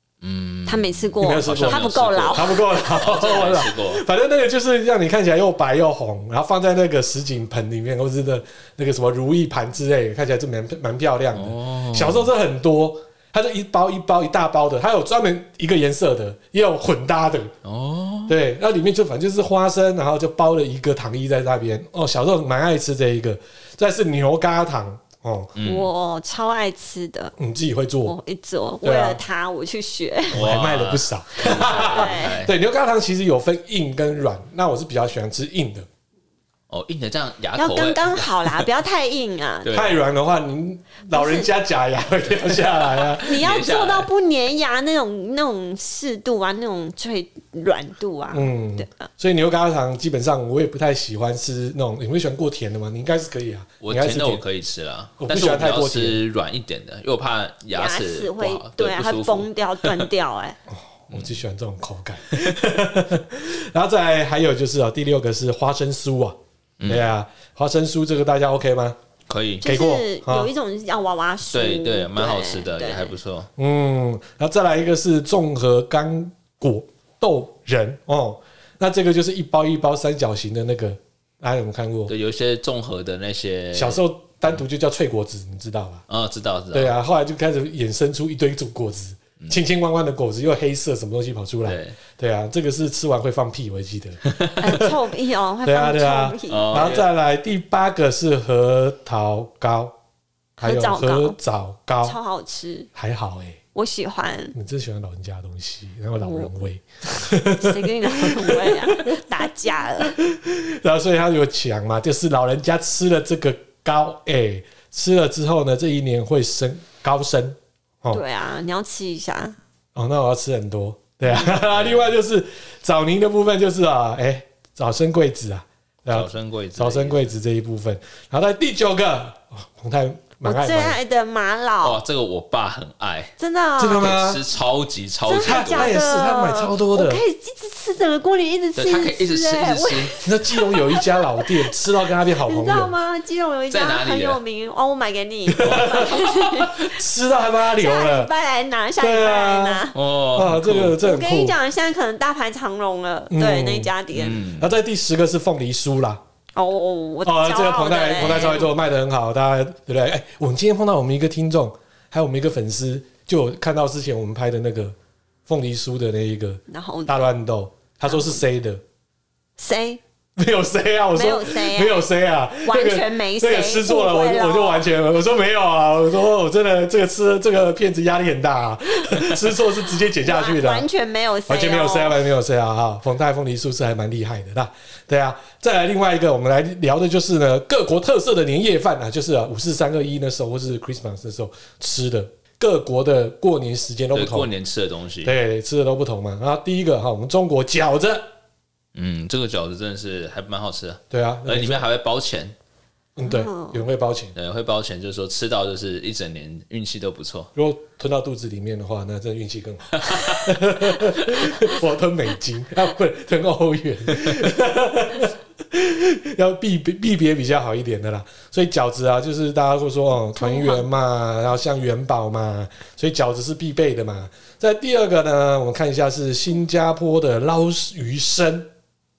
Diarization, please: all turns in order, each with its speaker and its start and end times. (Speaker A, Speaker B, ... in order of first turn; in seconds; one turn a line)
Speaker A: 0.2-4.0
Speaker B: 0.7-3.0
Speaker C: 1.2-17.5
Speaker A: 11.3-12.3
Speaker A: 17.6-18.4
Speaker C: 18.3-25.5
Speaker A: 25.6-25.9
Speaker B: 25.6-27.3
Speaker C: 27.4-28.1
Speaker B: 28.0-30.4
Speaker C: 28.8-29.2
Speaker C: 30.3-35.9
Speaker A: 30.3-32.5
Speaker B: 31.5-32.4
Speaker A: 36.7-38.7
Speaker B: 37.5-39.7
Speaker A: 39.6-40.0
Speaker C: 39.7-43.4
Speaker B: 41.1-41.5
Speaker A: 42.5-44.1
Speaker B: 43.2-49.1
Speaker C: 48.3-54.4
Speaker A: 53.8-60.1
Speaker C: 55.2-56.2
Speaker B: 57.7-60.6
Speaker C: 60.7-69.0
Speaker A: 61.1-61.4
Speaker A: 62.3-62.5
Speaker A: 66.8-67.1
Speaker A: 69.3-69.7
Speaker B: 69.6-73.1
Speaker C: 69.6-70.5
Speaker A: 71.5-73.5
Speaker C: 73.6-82.1
Speaker A: 82.1-84.0
Speaker C: 83.7-86.0
Speaker A: 86.1-86.9
Speaker C: 86.7-95.0
Speaker A: 91.6-92.0
Speaker A: 94.3-94.6
Speaker B: 94.6-97.0
Speaker C: 95.6-99.9
Speaker A: 96.5-97.1
Speaker B: 100.6-101.4
Speaker C: 100.6-102.2
Speaker B: 102.0-102.9
Speaker C: 102.9-103.6
Speaker B: 103.7-104.5
Speaker C: 104.5-109.2
Speaker B: 106.2-106.5
Speaker B: 107.1-110.2
Speaker C: 110.2-118.2
Speaker B: 118.1-119.5
Speaker C: 119.9-131.0
Speaker A: 121.3-122.1
Speaker A: 126.1-127.3
Speaker B: 130.4-132.0
Speaker A: 131.8-133.3
Speaker B: 133.4-134.1
Speaker C: 133.8-134.4
Speaker A: 133.9-135.9
Speaker B: 135.2-141.7
Speaker C: 135.4-137.2
Speaker A: 138.8-140.2
Speaker C: 140.2-142.9
Speaker B: 142.4-146.9
Speaker A: 143.7-144.4
Speaker C: 145.5-148.3
Speaker A: 145.6-146.0
Speaker B: 147.6-149.9
Speaker C: 149.0-151.6
Speaker A: 149.9-151.0
Speaker B: 151.0-154.4
Speaker C: 153.3-153.9
Speaker A: 154.1-154.7
Speaker C: 154.5-156.2
Speaker B: 156.6-158.7
Speaker C: 157.2-164.9
Speaker A: 158.2-158.6
Speaker C: 165.5-168.8
Speaker B: 166.7-167.2
Speaker B: 168.1-168.4
Speaker B: 169.6-170.0
Speaker C: 170.4-180.9
Speaker B: 171.1-172.0
Speaker B: 172.6-174.9
Speaker B: 180.2-182.2
Speaker C: 181.5-194.5
Speaker A: 194.1-195.3
Speaker C: 195.2-198.3
Speaker A: 198.9-202.5
Speaker C: 201.1-201.8
Speaker C: 203.2-204.3
Speaker B: 203.2-203.8
Speaker A: 204.3-207.5
Speaker C: 207.6-228.7
Speaker A: 210.0-210.4
Speaker B: 220.4-220.8